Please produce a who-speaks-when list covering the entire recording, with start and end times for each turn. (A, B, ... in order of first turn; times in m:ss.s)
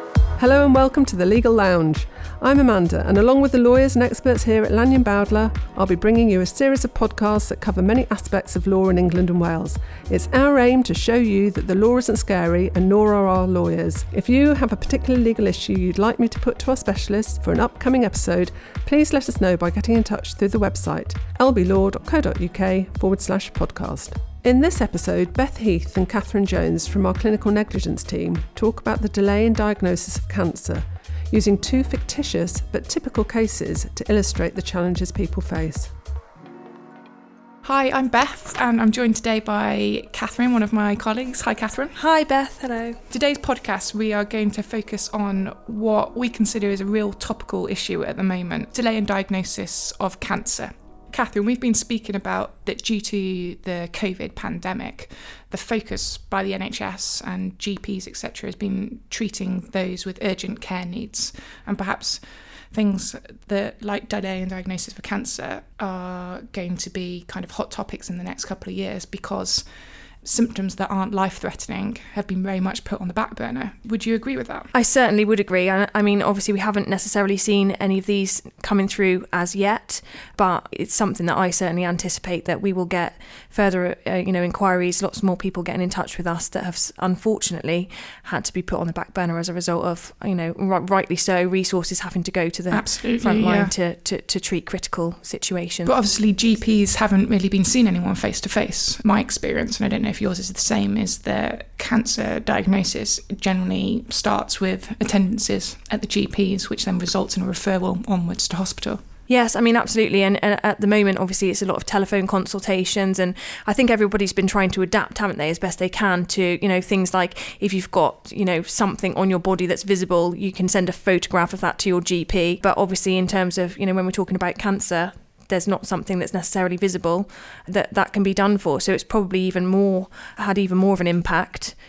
0:00.4-0:35.9 A
0:37.6-0:42.0 B
0:41.9-0:43.0 C
0:43.1-1:02.2 B
1:02.7-1:09.6 B
1:10.2-1:14.7 B
1:14.7-1:36.0 C
1:32.7-1:33.7 B
1:35.8-1:49.0 B
1:49.3-2:11.8 C